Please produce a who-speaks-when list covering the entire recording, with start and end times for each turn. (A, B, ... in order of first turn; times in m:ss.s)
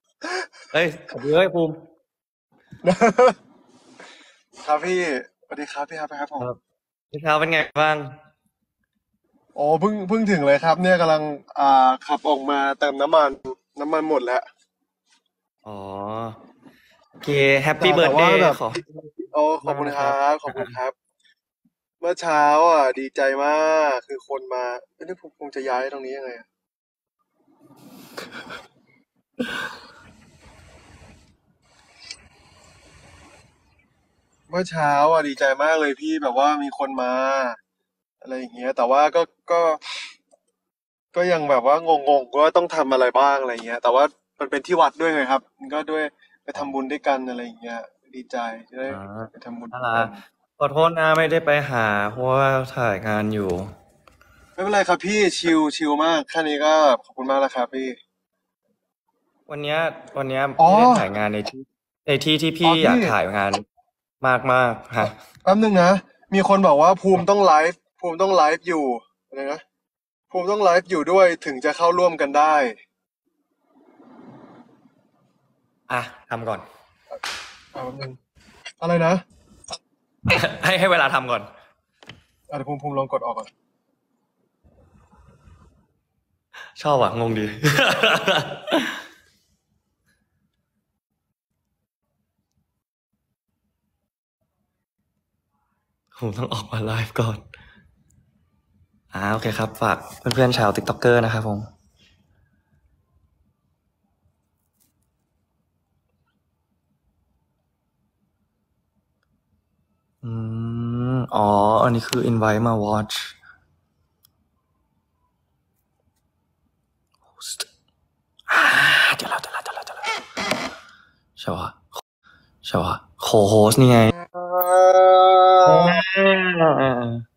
0:00.7-0:01.8 A
0:02.8-0:03.4 B
0:04.6-0:06.5 B
0:07.1-0:08.1 A
0:09.6-0:14.4 B
0:15.6-0:16.4 A
0:17.2-0:20.7 A
0:17.8-0:18.7 B
0:19.3-0:20.9 B
0:22.0-0:26.4 B
0:34.5-0:37.6 B
0:38.2-0:39.8 B
0:41.1-0:50.2 B
0:48.9-0:53.7 A
0:54.6-0:58.0 B
0:59.5-1:03.6 A
1:00.6-1:01.1 B
1:02.6-1:03.1 B
1:04.2-1:05.1 A
1:05.0-1:09.6 B
1:10.3-1:12.8 B
1:15.9-1:16.6 A
1:17.7-1:18.2 B
1:18.8-1:19.2 B
1:20.2-1:21.5 A
1:22.5-1:23.5 B
1:26.8-1:29.0 A
1:36.2-1:37.4 A
1:39.1-1:41.7 A
1:50.2-1:53.3 A
1:57.3-1:57.7 A
1:58.5-2:00.2 A
2:01.4-2:02.0 A
2:02.6-2:04.1 A
2:04.1-2:06.0 B
2:05.6-2:07.2 A